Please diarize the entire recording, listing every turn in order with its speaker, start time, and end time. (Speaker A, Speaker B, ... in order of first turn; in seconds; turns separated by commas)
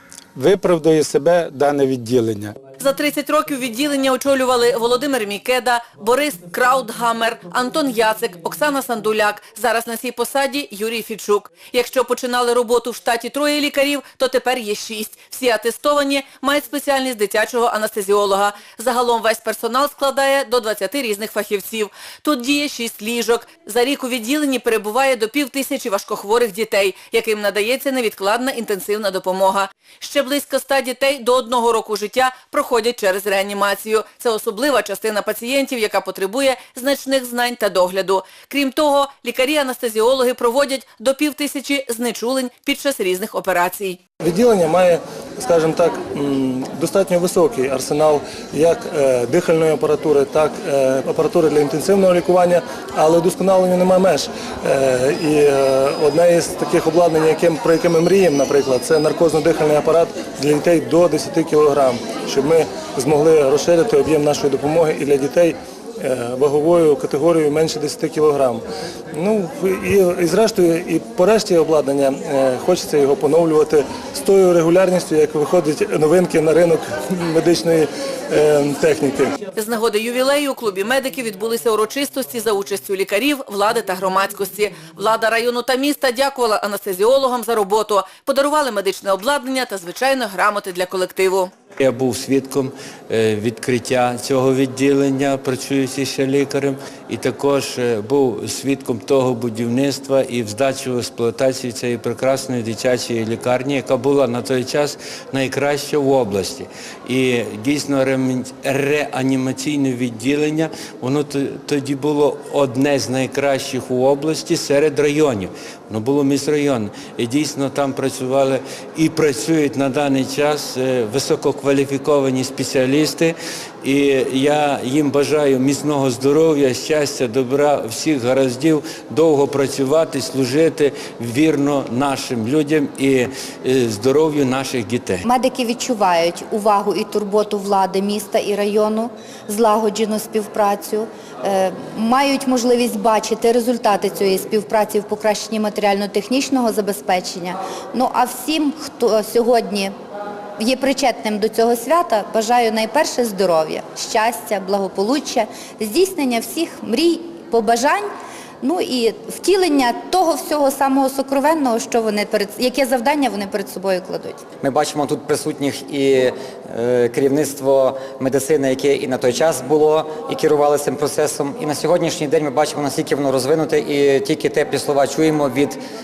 Speaker A: 0.3-2.5, Speaker B: 2.8-44.0, Speaker C: 44.2-79.3, Speaker B: 79.5-91.5, Speaker D: 91.8-135.2, Speaker E: 135.2-149.9, Speaker E: 150.6-158.1, Speaker E: 158.6-164.5, Speaker F: 164.6-175.8